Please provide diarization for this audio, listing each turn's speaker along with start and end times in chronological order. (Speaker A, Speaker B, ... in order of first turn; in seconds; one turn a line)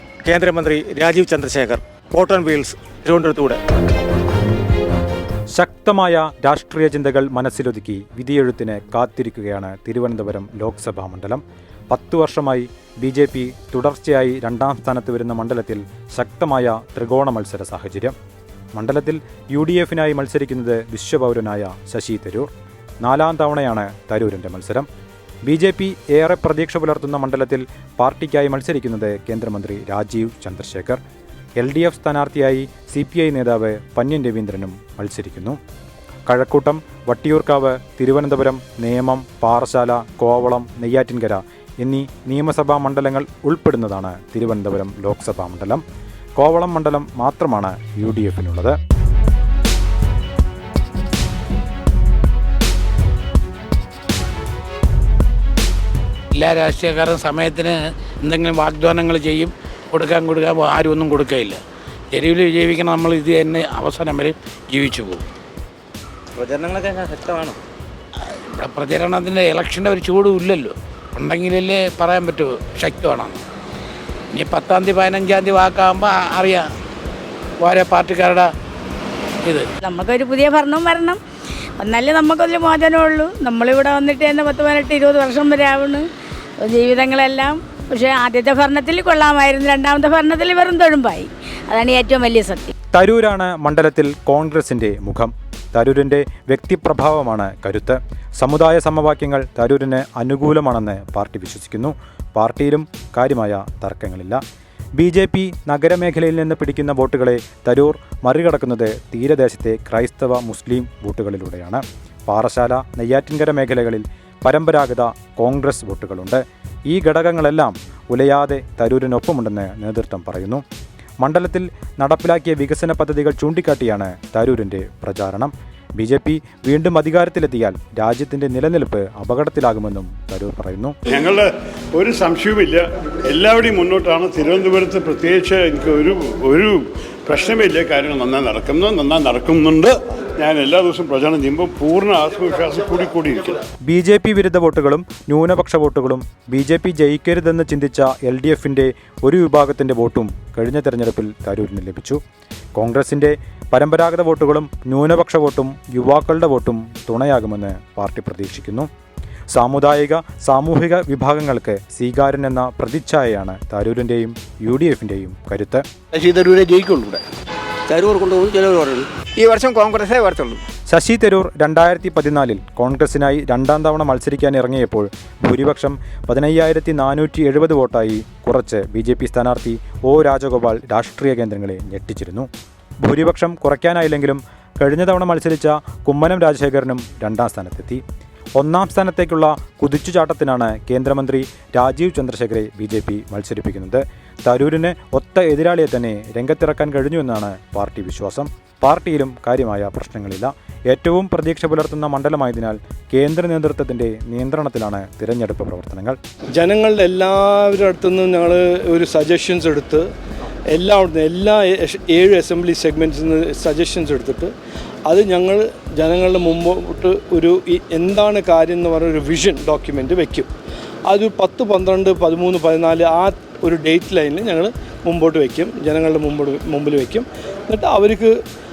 Speaker A: 0.3-3.6
Speaker B: 5.5-18.1
Speaker B: 18.7-22.5
Speaker B: 23.0-24.9
Speaker B: 25.4-31.0
Speaker B: 31.6-35.6
Speaker B: 36.3-45.8
Speaker B: 46.4-48.7
Speaker C: 56.3-61.6
Speaker C: 62.1-65.2
Speaker D: 66.4-67.5
Speaker C: 68.5-73.4
Speaker C: 74.3-76.7
Speaker C: 77.6-78.5
Speaker E: 79.8-81.2
Speaker E: 81.8-86.1
Speaker E: 86.6-92.7
Speaker B: 92.9-104.4
Speaker B: 105.0-120.6
Speaker B: 121.2-130.9
Speaker F: 131.1-143.6
Speaker B: 143.8-152.2
Speaker B: 152.8-158.9
Speaker B: 159.5-165.8
Speaker D: 166.1-167.2
Speaker D: 167.9-170.6
Speaker B: 170.9-182.5
Speaker B: 183.0-188.0
Speaker B: 188.6-206.2
Speaker G: 206.6-210.1
Speaker G: 210.7-214.5
Speaker G: 215.1-220.5
Speaker G: 221.1-228.3